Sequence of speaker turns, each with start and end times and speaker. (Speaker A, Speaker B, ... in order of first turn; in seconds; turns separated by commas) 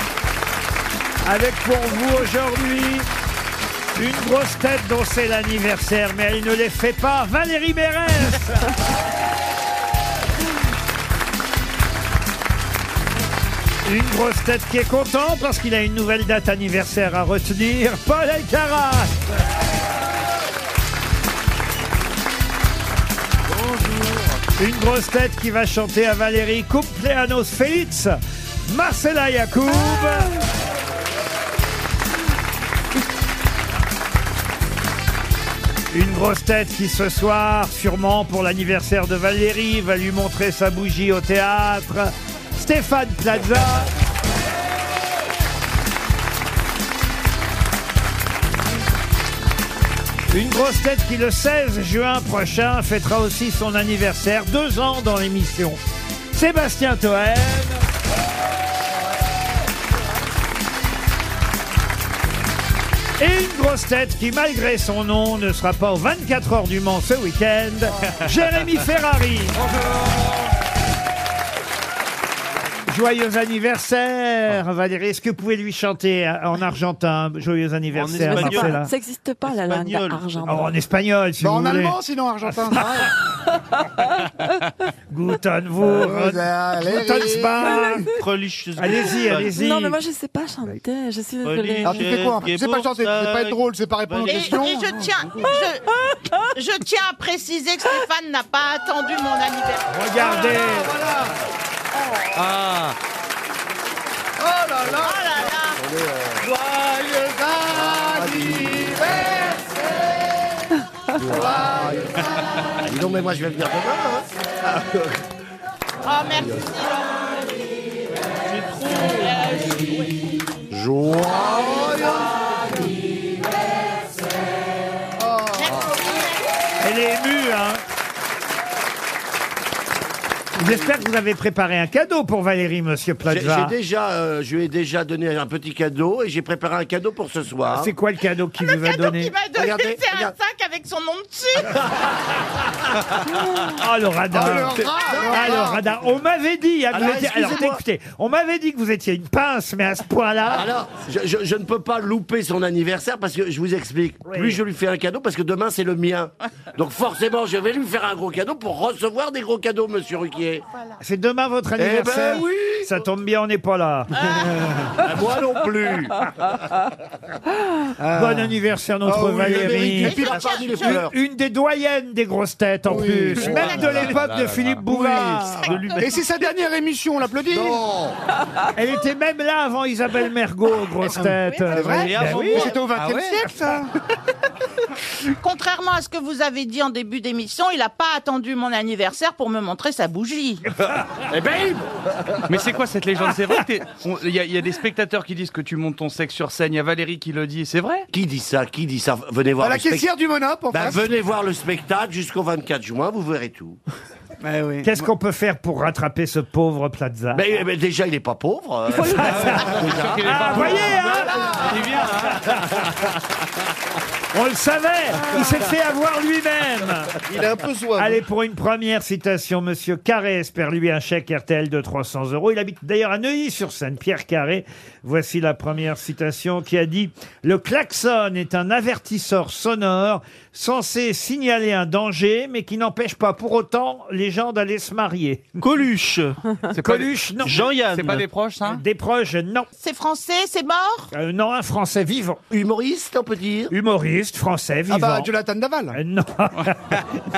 Speaker A: 1.2-3.1, Speaker A: 3.9-8.7, Speaker A: 13.8-19.1, Speaker A: 24.6-30.4, Speaker A: 35.9-43.9, Speaker A: 50.3-55.8, Speaker A: 56.3-57.8, Speaker A: 63.2-69.6, Speaker B: 69.6-70.2, Speaker A: 72.9-78.9, Speaker B: 77.9-78.8, Speaker C: 78.0-80.7, Speaker B: 79.6-80.4, Speaker A: 80.4-82.0, Speaker D: 81.4-83.1, Speaker A: 82.7-83.1, Speaker A: 85.1-88.1, Speaker D: 85.8-88.1, Speaker B: 88.2-89.5, Speaker A: 88.8-90.0, Speaker C: 89.2-92.2, Speaker B: 91.4-94.5, Speaker D: 91.8-95.1, Speaker E: 94.2-100.2, Speaker A: 99.9-100.9, Speaker D: 100.2-101.3, Speaker B: 102.3-103.0, Speaker D: 104.4-105.2, Speaker F: 104.8-106.5, Speaker E: 105.0-105.8, Speaker D: 106.4-109.7, Speaker F: 108.1-109.0, Speaker F: 111.1-112.0, Speaker D: 111.2-112.2, Speaker F: 112.8-115.1, Speaker E: 116.0-117.4, Speaker F: 116.4-116.7, Speaker E: 118.9-119.8, Speaker B: 118.9-119.3, Speaker F: 120.7-122.3, Speaker E: 125.5-126.5, Speaker A: 126.8-127.8, Speaker A: 130.6-133.7, Speaker F: 133.2-137.9, Speaker A: 137.7-139.3, Speaker E: 138.6-141.8, Speaker F: 139.6-140.3, Speaker A: 143.6-144.8, Speaker D: 144.3-145.8, Speaker F: 144.4-145.8, Speaker A: 145.3-150.7, Speaker F: 146.9-147.8, Speaker F: 150.5-160.6, Speaker A: 154.3-154.6, Speaker A: 161.0-164.1, Speaker F: 161.8-162.9, Speaker E: 164.2-164.5, Speaker F: 165.0-166.3, Speaker D: 168.0-170.7, Speaker A: 168.1-170.2, Speaker F: 169.3-171.1, Speaker E: 170.0-171.0, Speaker A: 170.8-175.8, Speaker D: 172.8-173.8, Speaker B: 173.4-174.8, Speaker E: 173.6-174.1, Speaker D: 174.9-177.8, Speaker B: 175.7-176.1, Speaker F: 177.5-178.1, Speaker A: 178.7-182.7, Speaker D: 181.1-183.9, Speaker E: 181.6-182.0, Speaker B: 181.9-183.4, Speaker E: 185.4-190.7, Speaker F: 191.3-191.8, Speaker B: 192.5-198.1, Speaker F: 198.1-200.1, Speaker D: 199.6-201.1, Speaker F: 200.7-203.8, Speaker B: 204.6-204.8, Speaker A: 204.8-207.4, Speaker F: 207.3-210.7, Speaker C: 208.9-209.3, Speaker A: 209.1-212.0, Speaker B: 209.3-212.7, Speaker C: 210.4-210.8, Speaker D: 210.9-211.8, Speaker A: 214.3-217.1, Speaker B: 217.3-218.1, Speaker A: 217.9-235.6, Speaker B: 235.6-238.8, Speaker A: 236.7-237.7, Speaker A: 238.6-239.7, Speaker E: 239.8-241.1, Speaker A: 241.1-242.4, Speaker F: 242.5-243.7, Speaker A: 243.7-245.3, Speaker D: 244.9-246.0, Speaker A: 245.9-247.0